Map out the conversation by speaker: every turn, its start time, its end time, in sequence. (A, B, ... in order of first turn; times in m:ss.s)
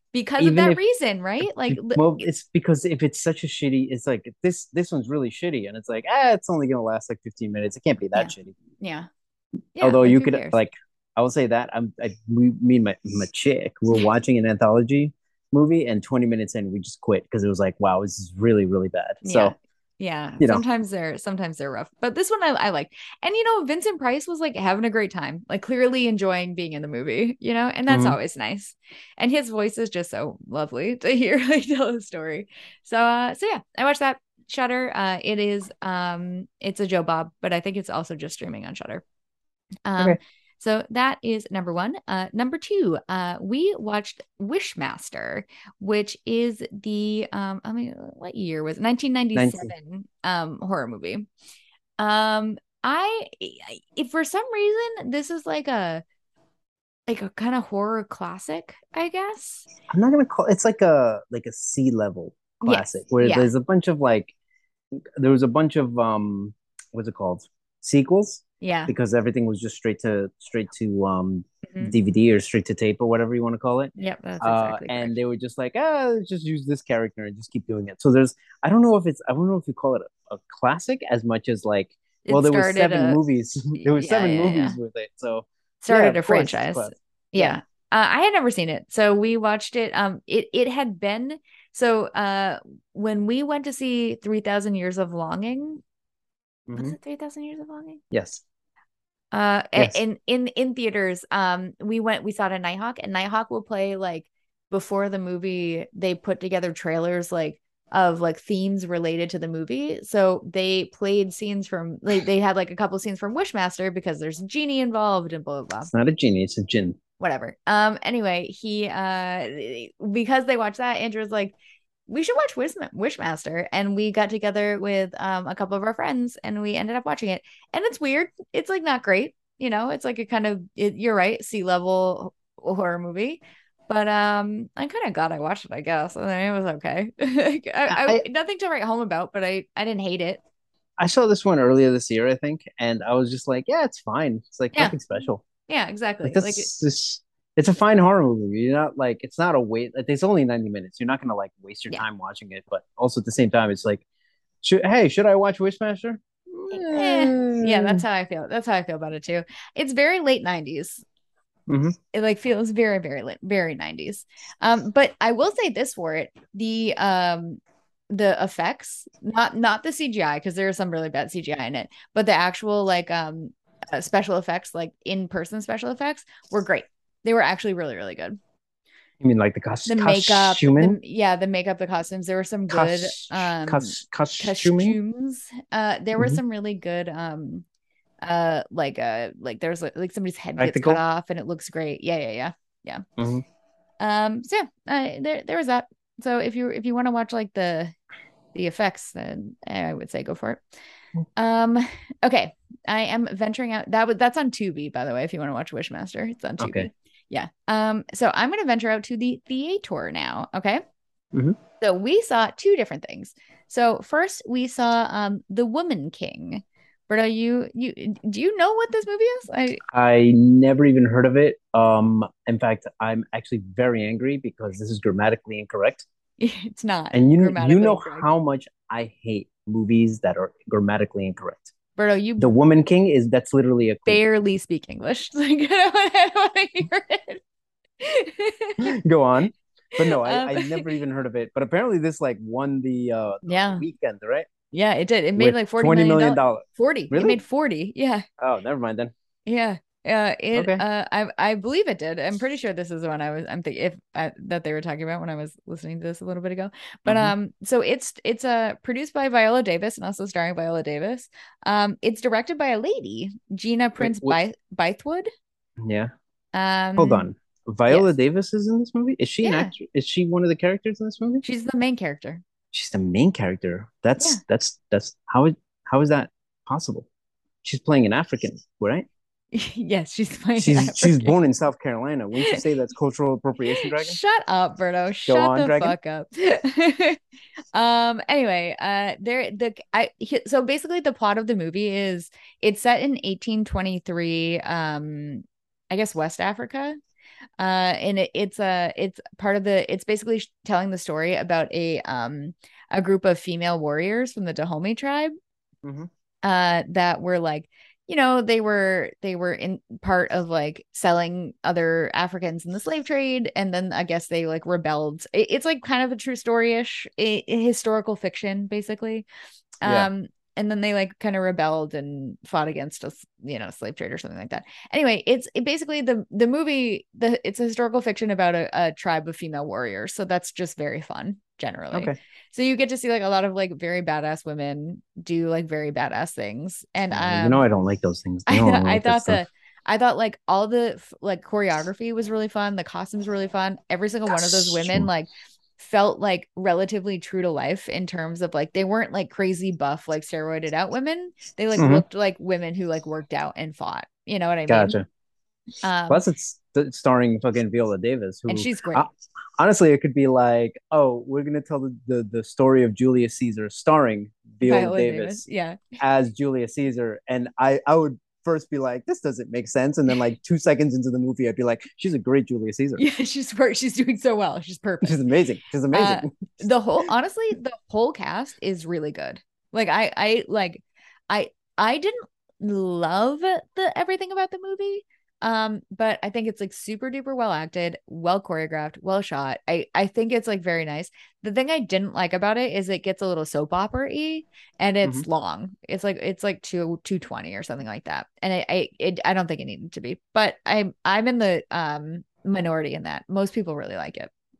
0:00.1-0:02.2 A
0:00.4-0:00.8 B
0:01.4-0:08.6 B
0:08.1-0:09.1 A
0:09.8-0:10.6 A
0:09.8-0:19.5 B
0:19.2-0:39.0 A
0:27.9-0:28.2 B
0:39.9-0:51.3 A
0:49.4-0:49.7 B
0:52.0-0:56.0 A
0:57.1-0:59.7 A
0:59.9-1:04.3 B
1:02.6-1:03.5 A
1:05.2-1:27.6 B
1:08.6-1:08.9 A
1:11.7-1:12.0 A
1:14.0-1:15.2 A
1:22.2-1:23.2 A
1:23.8-1:24.8 A
1:25.8-1:35.8 A
1:36.7-1:37.0 B
1:36.7-1:38.0 A
1:38.1-1:38.4 B
1:39.3-1:55.9 A
1:55.9-1:57.0 B
1:57.2-2:01.6 A
2:02.1-2:20.4 A
2:17.9-2:18.2 B
2:21.0-2:25.4 B
2:25.7-2:26.7 A
2:26.2-2:34.0 B
2:34.6-2:38.0 B
2:36.7-2:41.0 A
2:41.7-2:42.0 B
2:42.1-2:58.4 A
2:59.2-3:01.0 B
2:59.9-3:07.6 A
3:02.7-3:05.0 B
3:08.2-3:13.0 A
3:10.6-3:11.0 B
3:13.2-3:13.4 B
3:14.0-3:17.9 A
3:18.5-3:20.6 A
3:21.4-3:30.8 A
3:26.6-3:26.9 B
3:31.8-3:39.8 A
3:39.9-3:46.1 B
3:46.4-3:48.3 A
3:47.1-3:51.7 B
3:52.0-3:52.5 A
3:52.4-3:54.2 B
3:54.1-3:57.4 A
3:58.0-3:58.9 A
3:58.8-4:04.5 B
4:00.0-4:00.9 A
4:03.5-4:03.9 A
4:04.7-4:08.2 A
4:05.4-4:07.4 B
4:08.4-4:09.1 B
4:09.5-4:25.3 A
4:10.5-4:10.8 B
4:17.1-4:17.3 B
4:24.0-4:24.4 B
4:25.8-4:26.1 B
4:26.5-4:27.3 A
4:27.0-4:31.4 B
4:29.4-4:29.7 A
4:31.4-4:32.4 A
4:32.7-4:37.1 B
4:37.6-4:39.1 B
4:39.5-4:41.3 A
4:40.6-4:44.2 B
4:42.4-4:42.6 A
4:43.7-4:47.2 A
4:45.3-4:46.0 B
4:47.7-4:57.0 A
4:57.6-5:05.3 A
5:05.8-5:06.1 B
5:06.4-5:19.3 A
5:19.8-5:37.6 A
5:19.8-5:20.1 B
5:37.1-5:39.4 B
5:38.5-5:55.0 A
5:44.3-5:45.1 B
5:51.8-5:52.0 B
5:54.7-5:55.0 B
5:55.8-5:56.2 A
5:56.1-6:05.4 B
5:58.5-5:59.1 A
6:04.6-6:05.8 A
6:06.0-6:13.0 B
6:13.0-6:15.3 A
6:15.0-6:16.7 B
6:15.9-6:44.3 A